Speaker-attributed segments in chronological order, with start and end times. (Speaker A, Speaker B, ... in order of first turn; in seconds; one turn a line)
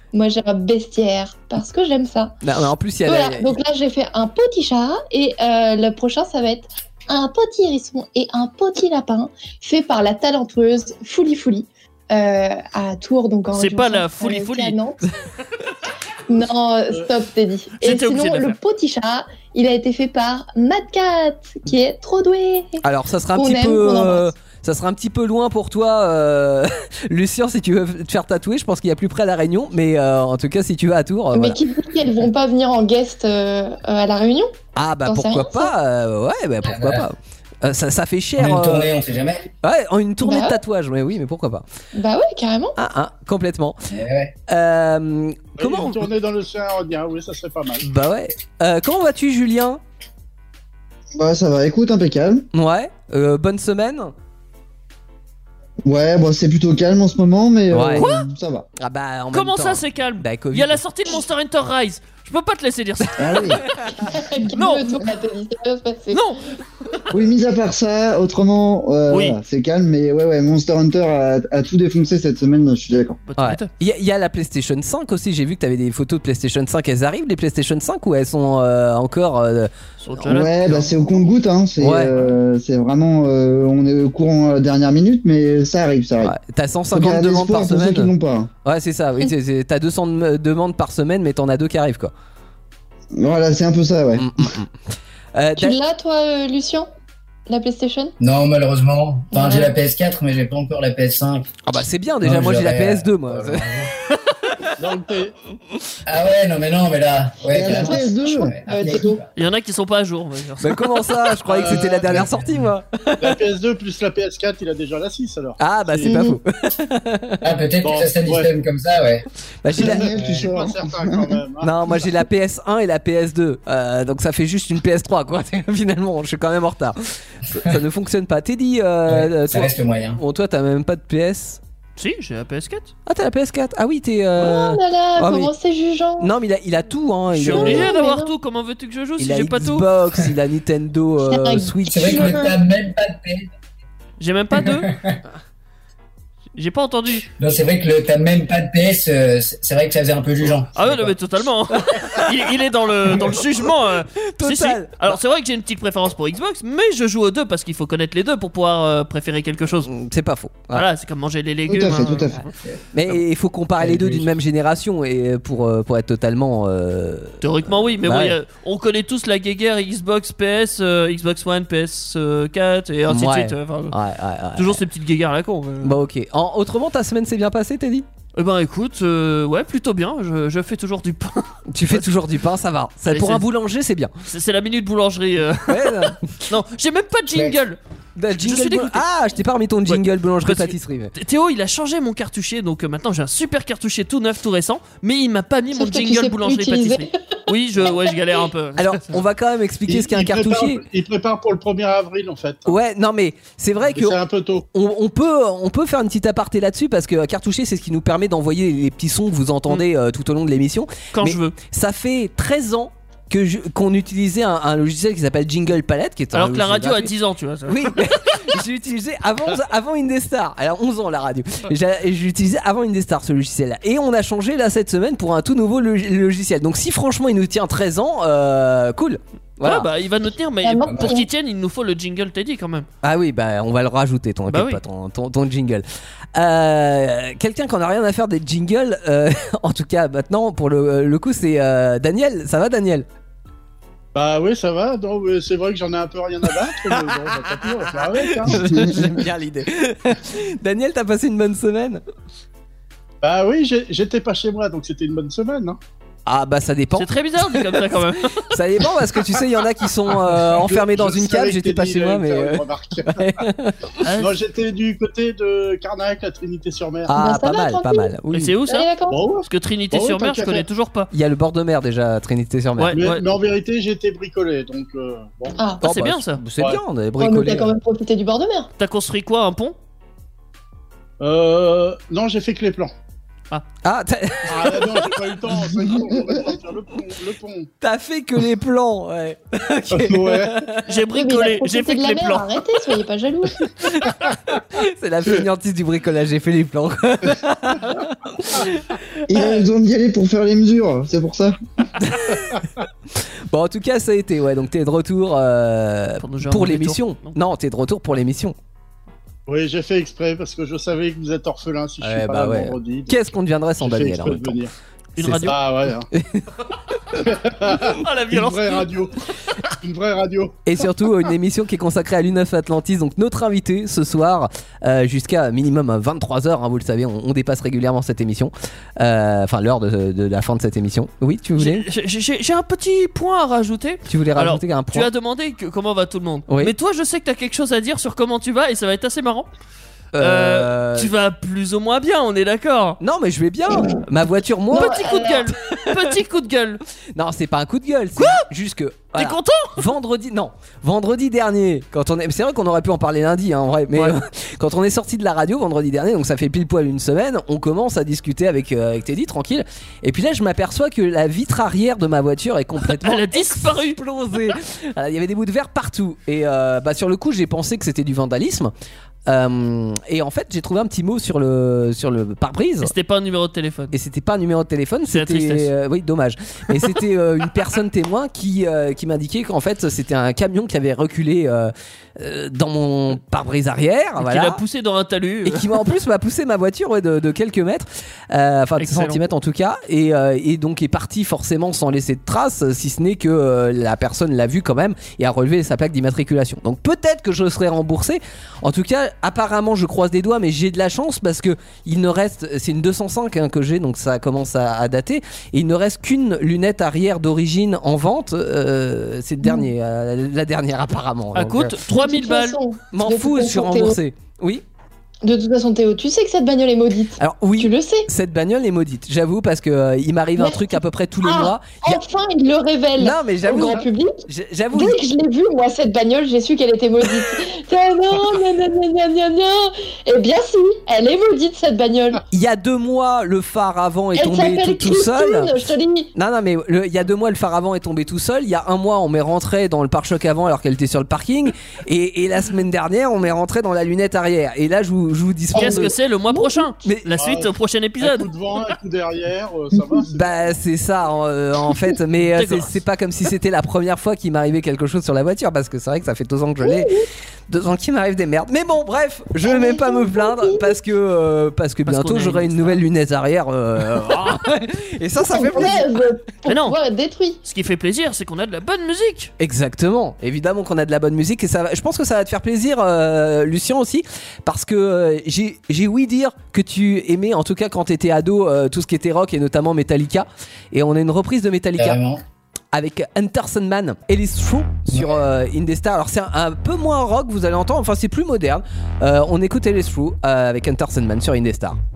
Speaker A: 0.1-2.4
Speaker B: 2.4-3.5
Speaker A: 3.0-15.1
Speaker C: 13.5-14.8
Speaker A: 16.3-22.8
Speaker C: 17.8-18.6
Speaker B: 22.8-31.6
Speaker A: 23.4-24.3
Speaker A: 31.3-34.5
Speaker B: 34.8-38.9
Speaker A: 35.1-35.7
Speaker D: 36.6-37.1
Speaker D: 38.4-39.5
Speaker B: 39.6-41.6
Speaker A: 40.2-40.6
Speaker A: 41.9-42.8
Speaker B: 42.8-43.8
Speaker D: 43.9-44.4
Speaker B: 44.5-46.1
Speaker E: 45.6-47.9
Speaker B: 47.8-49.8
Speaker F: 51.1-52.5
Speaker B: 52.5-54.1
Speaker F: 55.9-58.7
Speaker B: 57.7-58.1
Speaker C: 58.0-58.3
Speaker B: 58.8-60.8
Speaker C: 59.3-63.6
Speaker B: 63.0-63.7
Speaker F: 63.2-63.6
Speaker A: 63.9-66.2
Speaker C: 64.5-65.0
Speaker C: 66.1-66.4
Speaker F: 67.1-73.2
Speaker C: 69.1-69.4
Speaker C: 73.3-73.7
Speaker B: 73.4-79.7
Speaker C: 80.0-81.0
Speaker F: 80.3-86.3
Speaker B: 81.8-82.3
Speaker B: 86.2-88.1
Speaker F: 86.9-88.5
Speaker B: 88.6-92.1
Speaker F: 93.1-94.3
Speaker B: 94.2-94.7
Speaker B: 95.3-95.8
Speaker A: 95.6-96.9
Speaker A: 97.5-98.1
Speaker D: 98.2-101.5
Speaker A: 99.3-99.7
Speaker B: 101.7-103.9
Speaker D: 102.2-103.9
Speaker E: 104.8-105.3
Speaker D: 106.1-109.3
Speaker F: 107.5-108.6
Speaker A: 107.8-109.2
Speaker C: 109.4-111.1
Speaker B: 110.6-113.4
Speaker E: 111.5-112.2
Speaker D: 112.1-112.7
Speaker E: 113.2-116.2
Speaker B: 115.6-117.4
Speaker A: 116.0-116.4
Speaker D: 117.4-119.3
Speaker E: 117.8-118.5
Speaker B: 119.6-120.1
Speaker E: 119.8-121.8
Speaker F: 119.8-121.4
Speaker D: 119.8-120.5
Speaker B: 121.6-131.6
Speaker D: 129.1-130.2
Speaker C: 132.0-132.9
Speaker B: 133.1-135.5
Speaker A: 134.4-136.3
Speaker B: 136.2-137.9
Speaker C: 137.3-139.9
Speaker A: 137.5-138.3
Speaker B: 139.2-142.4
Speaker A: 141.3-142.5
Speaker D: 141.9-143.5
Speaker C: 144.2-144.9
Speaker D: 144.5-145.2
Speaker C: 146.6-147.3
Speaker D: 147.4-151.1
Speaker C: 150.8-159.9
Speaker B: 151.9-152.3
Speaker B: 154.4-155.2
Speaker B: 159.8-160.8
Speaker C: 160.7-162.5
Speaker F: 161.7-162.4
Speaker B: 162.9-167.4
Speaker F: 163.8-164.3
Speaker C: 167.4-173.9
Speaker B: 168.0-168.4
Speaker B: 173.1-174.8
Speaker C: 174.6-176.0
Speaker B: 175.8-178.1
Speaker C: 178.3-182.1
Speaker B: 181.7-184.1
Speaker C: 183.1-183.4
Speaker C: 184.3-187.8
Speaker B: 185.7-186.5
Speaker B: 188.2-191.1
Speaker C: 188.4-189.0
Speaker C: 189.9-199.2
Speaker A: 195.7-198.2
Speaker B: 198.8-200.8
Speaker E: 199.9-202.8
Speaker B: 202.7-204.2
Speaker E: 203.9-204.7
Speaker B: 204.7-217.1
Speaker C: 211.1-211.6
Speaker C: 216.3-218.4
Speaker B: 217.7-229.9
Speaker C: 229.6-232.9
Speaker A: 230.6-231.3
Speaker B: 233.0-243.1
Speaker C: 234.5-234.8
Speaker E: 244.1-248.7
Speaker B: 246.8-252.0
Speaker F: 248.5-249.1
Speaker E: 253.2-255.8
Speaker B: 256.3-264.0
Speaker C: 257.0-258.5
Speaker E: 260.5-263.4
Speaker C: 264.0-264.4
Speaker E: 264.2-267.1
Speaker B: 267.1-268.5
Speaker A: 267.2-268.1
Speaker C: 268.3-268.9
Speaker A: 268.7-269.2
Speaker E: 269.1-270.6
Speaker C: 269.4-271.1
Speaker B: 271.1-273.0
Speaker C: 272.8-273.2
Speaker E: 272.9-275.6
Speaker A: 275.6-275.8
Speaker B: 275.8-277.7
Speaker C: 275.8-276.4
Speaker E: 276.6-276.8
Speaker A: 277.2-278.7
Speaker C: 278.8-279.8
Speaker E: 281.2-282.9
Speaker B: 283.8-285.1
Speaker E: 284.5-287.7
Speaker F: 285.5-286.5
Speaker B: 287.8-290.8
Speaker E: 289.9-290.6
Speaker C: 290.9-292.6
Speaker A: 291.1-293.7
Speaker B: 293.8-299.6
Speaker F: 299.3-301.6
Speaker B: 302.0-302.6
Speaker B: 303.5-308.6
Speaker C: 306.2-307.3
Speaker E: 309.5-313.2
Speaker B: 312.0-314.6
Speaker E: 313.8-316.1
Speaker C: 315.2-315.6
Speaker B: 315.2-315.5
Speaker B: 316.1-316.5
Speaker E: 317.3-319.2
Speaker C: 317.6-318.9
Speaker E: 319.8-320.6
Speaker B: 320.7-331.9
Speaker C: 331.6-339.5
Speaker B: 334.1-335.1
Speaker B: 340.2-341.1
Speaker C: 340.2-343.0
Speaker B: 343.0-346.2
Speaker C: 344.7-346.8
Speaker A: 344.7-345.5
Speaker B: 347.1-368.7
Speaker C: 348.2-348.4
Speaker C: 349.2-349.9
Speaker C: 362.8-364.6
Speaker B: 369.3-372.9
Speaker C: 372.8-373.9
Speaker B: 373.9-384.6
Speaker C: 375.1-375.7
Speaker C: 384.2-385.8
Speaker B: 385.4-411.7
Speaker C: 388.8-389.3
Speaker C: 411.4-412.6
Speaker A: 412.0-414.0
Speaker B: 412.9-414.6
Speaker A: 415.2-418.1
Speaker B: 417.2-422.0
Speaker A: 420.4-424.2
Speaker B: 423.0-425.0
Speaker A: 424.7-432.2
Speaker B: 432.3-435.5
Speaker A: 434.1-436.1
Speaker B: 436.1-445.9
Speaker C: 445.5-448.6
Speaker A: 445.6-446.7
Speaker B: 446.8-447.3
Speaker E: 447.2-450.5
Speaker B: 450.1-456.9
Speaker C: 452.2-452.8
Speaker A: 456.6-457.1
Speaker B: 457.5-466.0
Speaker A: 459.4-460.7
Speaker C: 461.9-462.8
Speaker A: 465.2-467.4
Speaker C: 466.5-466.8
Speaker C: 467.4-469.3
Speaker B: 469.4-482.0
Speaker D: 481.8-482.2
Speaker B: 482.7-491.8
Speaker D: 484.9-485.2